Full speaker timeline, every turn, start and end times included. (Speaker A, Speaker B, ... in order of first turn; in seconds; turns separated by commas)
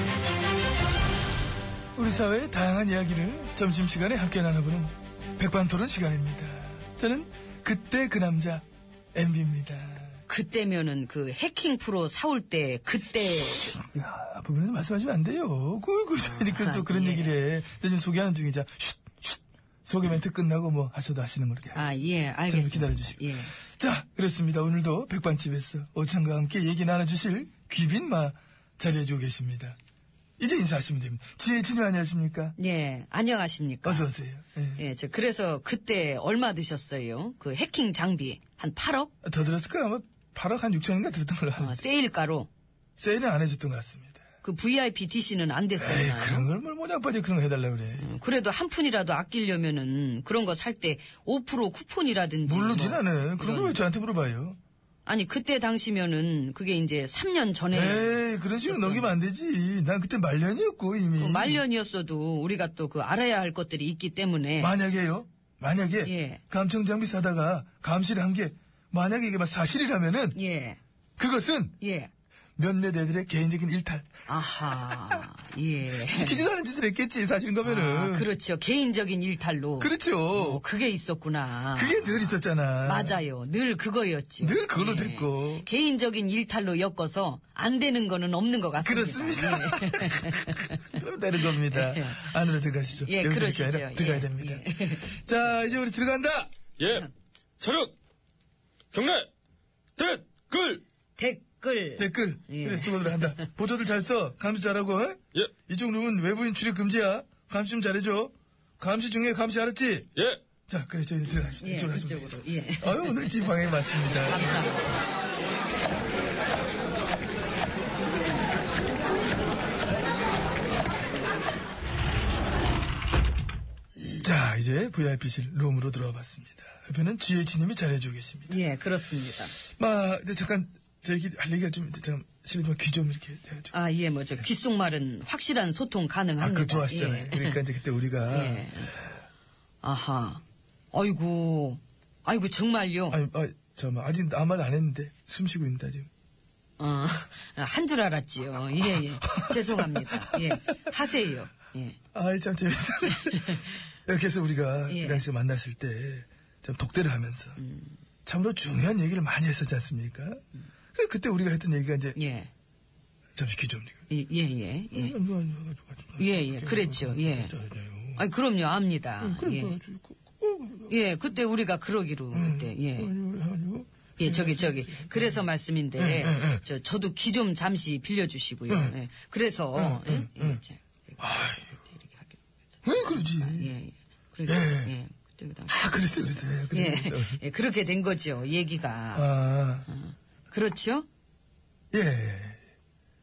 Speaker A: 2.0-10.1, Speaker B: 10.3-13.7, Speaker A: 13.6-29.8, Speaker B: 16.2-17.4, Speaker B: 21.8-23.5, Speaker A: 30.4-32.5, Speaker B: 32.6-34.1, Speaker A: 33.8-34.8, Speaker B: 34.8-39.1, Speaker A: 39.2-41.8, Speaker B: 41.6-42.5, Speaker A: 43.0-44.2, Speaker B: 44.4-46.5, Speaker A: 45.8-48.1, Speaker B: 48.0-53.8, Speaker A: 52.5-54.6, Speaker B: 55.1-59.1, Speaker A: 57.7-61.6, Speaker B: 61.2-64.8, Speaker A: 64.6-70.4, Speaker B: 66.0-66.4, Speaker B: 70.3-70.8, Speaker A: 71.2-71.8, Speaker B: 71.8-72.1, Speaker A: 72.6-74.1, Speaker B: 74.3-76.5, Speaker A: 74.6-75.2, Speaker A: 75.9-78.3, Speaker B: 77.6-92.4, Speaker A: 79.8-80.6, Speaker A: 81.7-83.2, Speaker A: 84.4-85.7, Speaker A: 88.8-96.5, Speaker B: 93.0-95.3, Speaker C: 96.8-97.1, Speaker C: 97.6-98.0, Speaker C: 98.9-99.3, Speaker C: 100.0-100.8, Speaker B: 101.2-103.4, Speaker A: 102.0-110.1, Speaker A: 110.7-114.7, Speaker B: 111.6-114.9, Speaker A: 124.1-128.6, Speaker B: 128.5-129.5, Speaker A: 129.6-133.7, Speaker B: 133.7-137.6, Speaker A: 136.4-138.7, Speaker B: 138.3-139.0, Speaker B: 139.8-143.2, Speaker A: 143.1-146.1, Speaker B: 146.8-152.0, Speaker A: 148.7-150.8, Speaker A: 152.1-157.6, Speaker B: 154.9-155.2, Speaker B: 157.6-158.0, Speaker A: 158.3-160.4, Speaker A: 160.9-162.2, Speaker B: 162.2-162.5, Speaker A: 163.4-164.0, Speaker B: 164.1-165.2, Speaker A: 164.9-168.2, Speaker B: 166.2-167.5, Speaker B: 168.2-169.8, Speaker A: 169.2-170.9, Speaker B: 170.9-173.1, Speaker A: 172.3-175.4, Speaker B: 174.2-186.1, Speaker A: 176.0-176.6, Speaker A: 178.7-178.9, Speaker A: 179.8-180.6, Speaker A: 181.2-181.7, Speaker A: 182.8-183.7, Speaker A: 184.5-184.9, Speaker A: 185.7-187.4, Speaker B: 186.7-189.3, Speaker A: 189.2-189.9, Speaker B: 189.9-191.1, Speaker A: 191.9-192.6